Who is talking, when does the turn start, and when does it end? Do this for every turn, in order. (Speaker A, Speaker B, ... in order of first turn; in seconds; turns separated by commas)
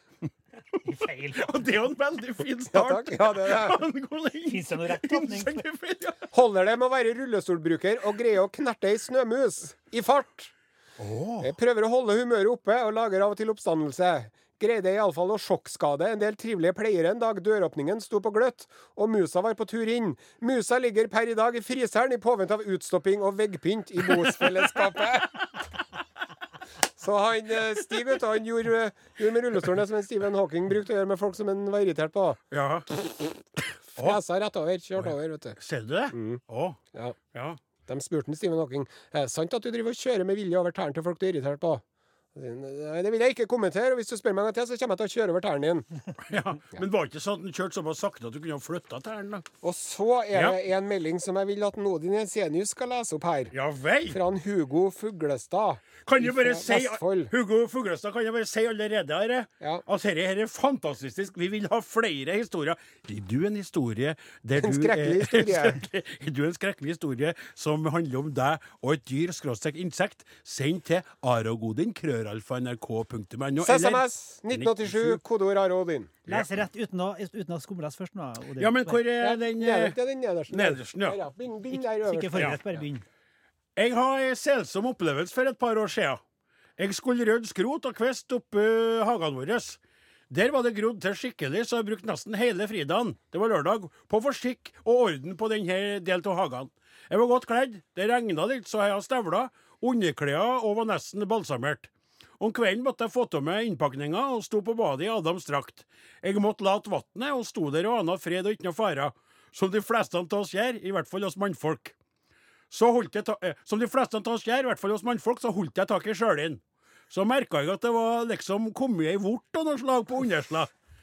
Speaker A: 0.8-1.6, Speaker B: 1.3-6.3, Speaker C: 2.7-3.8, Speaker A: 4.5-5.6, Speaker C: 6.3-10.5, Speaker B: 11.0-11.5, Speaker C: 11.4-25.3, Speaker B: 24.1-24.9, Speaker C: 27.0-32.4, Speaker B: 32.5-32.9, Speaker C: 33.0-33.3, Speaker C: 33.9-35.6, Speaker B: 35.0-36.8, Speaker C: 36.1-36.4, Speaker B: 37.3-37.6, Speaker C: 37.9-41.8, Speaker C: 42.4-45.9, Speaker B: 46.2-49.5, Speaker C: 49.6-53.5, Speaker B: 50.3-50.6, Speaker B: 53.5-54.2, Speaker C: 54.1-57.3, Speaker B: 56.0-75.2, Speaker C: 64.6-65.8, Speaker C: 73.6-76.1, Speaker A: 76.3-79.0, Speaker B: 78.6-80.0, Speaker C: 79.2-82.7, Speaker B: 80.5-81.2, Speaker A: 82.0-83.0, Speaker B: 82.3-82.6, Speaker B: 83.8-86.2, Speaker B: 86.8-112.0, Speaker B: 112.7-120.7